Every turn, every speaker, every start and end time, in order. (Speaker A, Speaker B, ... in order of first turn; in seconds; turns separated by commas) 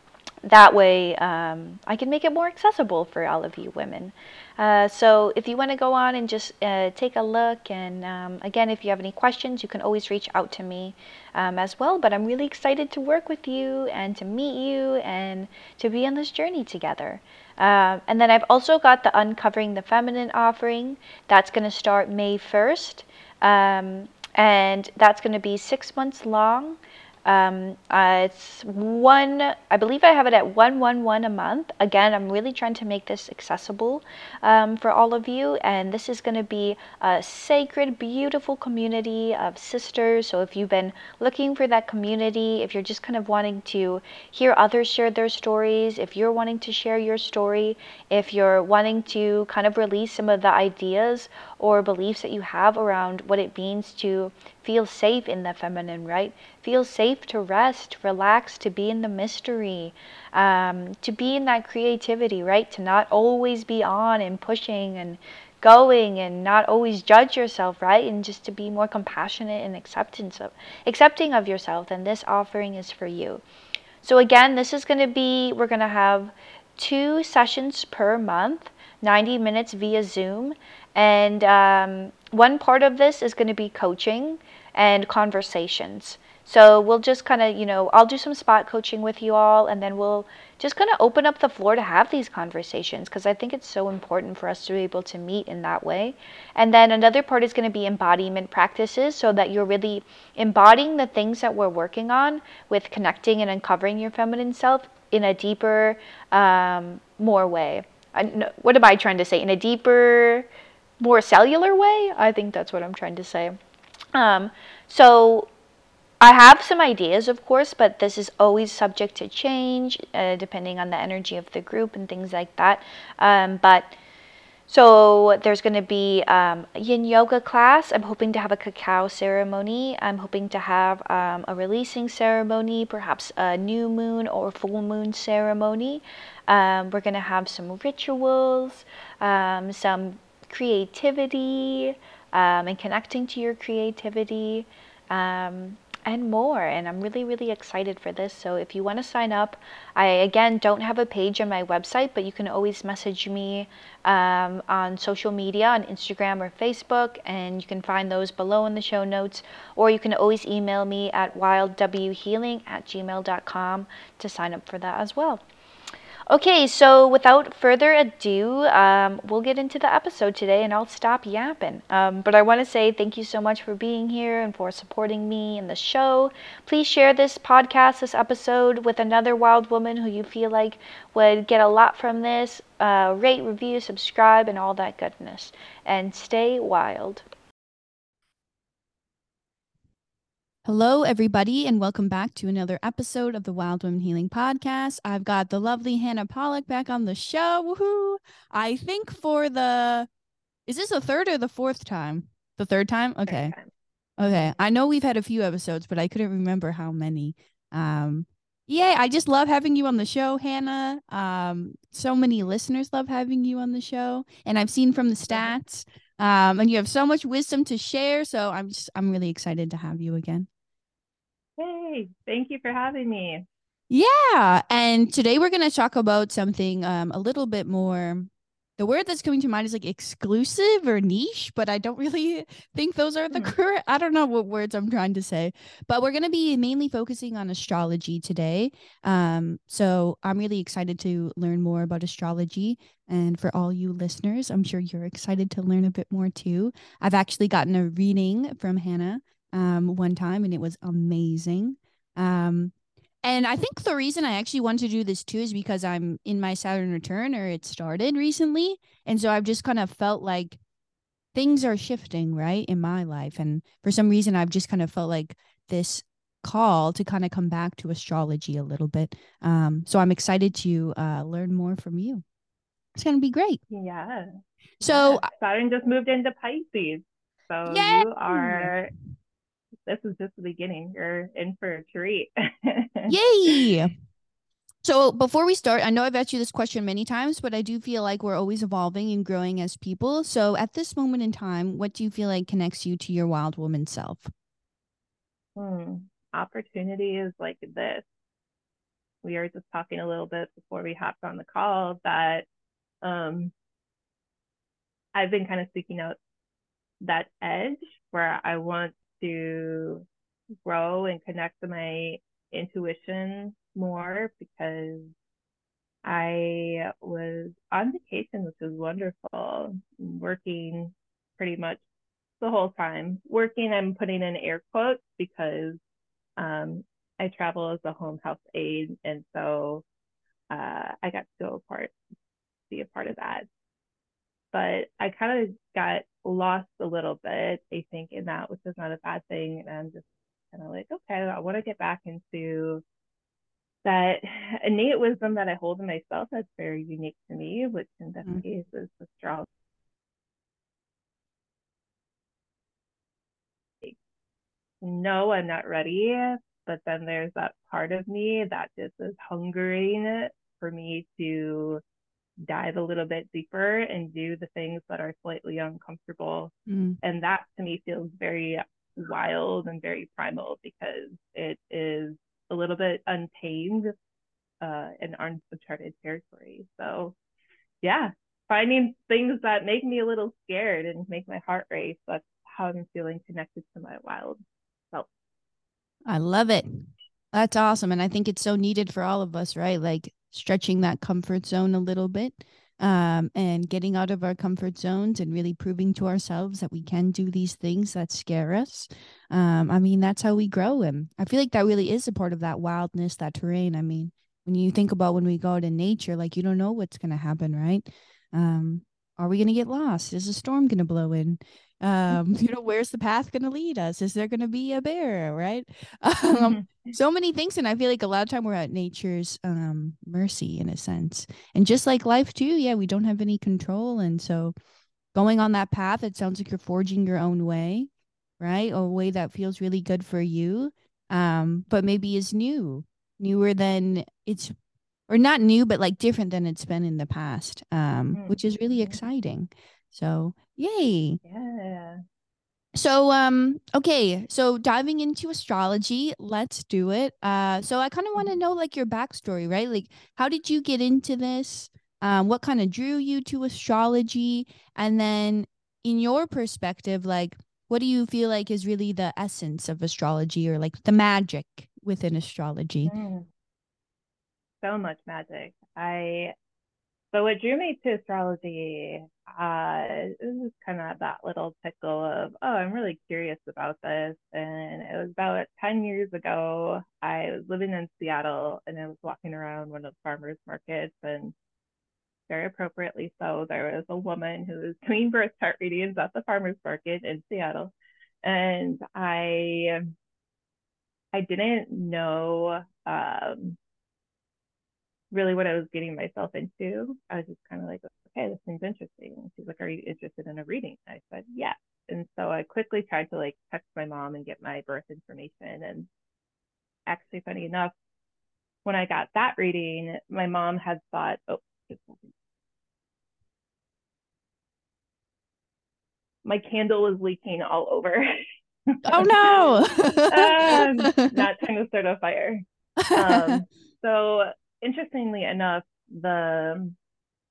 Speaker A: 0.4-73.4, Speaker A: 74.0-110.5, Speaker A: 111.0-113.6, Speaker A: 114.1-115.5, Speaker A: 116.2-123.9, Speaker A: 124.7-165.4, Speaker A: 166.3-187.2, Speaker B: 190.6-200.1, Speaker B: 200.7-203.5, Speaker C: 203.2-204.6, Speaker B: 204.2-220.5, Speaker C: 221.6-223.4, Speaker B: 223.9-260.6, Speaker B: 261.3-272.2, Speaker B: 273.0-273.6, Speaker C: 273.7-274.3, Speaker B: 274.8-275.3, Speaker C: 274.9-278.9, Speaker B: 277.6-278.7, Speaker C: 279.9-283.7, Speaker B: 283.1-283.9, Speaker B: 284.8-294.3, Speaker C: 295.6-298.0, Speaker C: 299.2-302.4, Speaker C: 303.0-303.5, Speaker C: 305.1-306.2, Speaker C: 307.0-310.1, Speaker C: 310.6-315.1, Speaker C: 316.0-321.8, Speaker C: 322.4-325.8, Speaker C: 326.4-329.8, Speaker C: 330.5-331.9, Speaker C: 332.7-333.4, Speaker C: 334.5-342.8, Speaker C: 343.8-349.5, Speaker C: 354.8-361.8, Speaker C: 362.4-373.9, Speaker B: 366.7-367.0, Speaker C: 374.6-377.1, Speaker C: 377.8-384.4, Speaker B: 386.1-424.5, Speaker C: 416.3-416.9, Speaker B: 425.1-427.9, Speaker B: 428.4-434.5, Speaker B: 435.1-441.2, Speaker C: 438.1-439.0, Speaker C: 441.2-442.0, Speaker B: 442.7-462.9, Speaker C: 462.9-463.3, Speaker C: 464.6-466.3, Speaker C: 467.1-481.3, Speaker C: 482.3-489.9, Speaker C: 491.1-493.6, Speaker C: 495.1-505.9, Speaker C: 506.9-507.7, Speaker C: 508.6-511.9, Speaker C: 516.2-518.1, Speaker C: 518.7-519.6, Speaker B: 518.9-521.1, Speaker C: 520.1-526.8, Speaker B: 522.8-523.4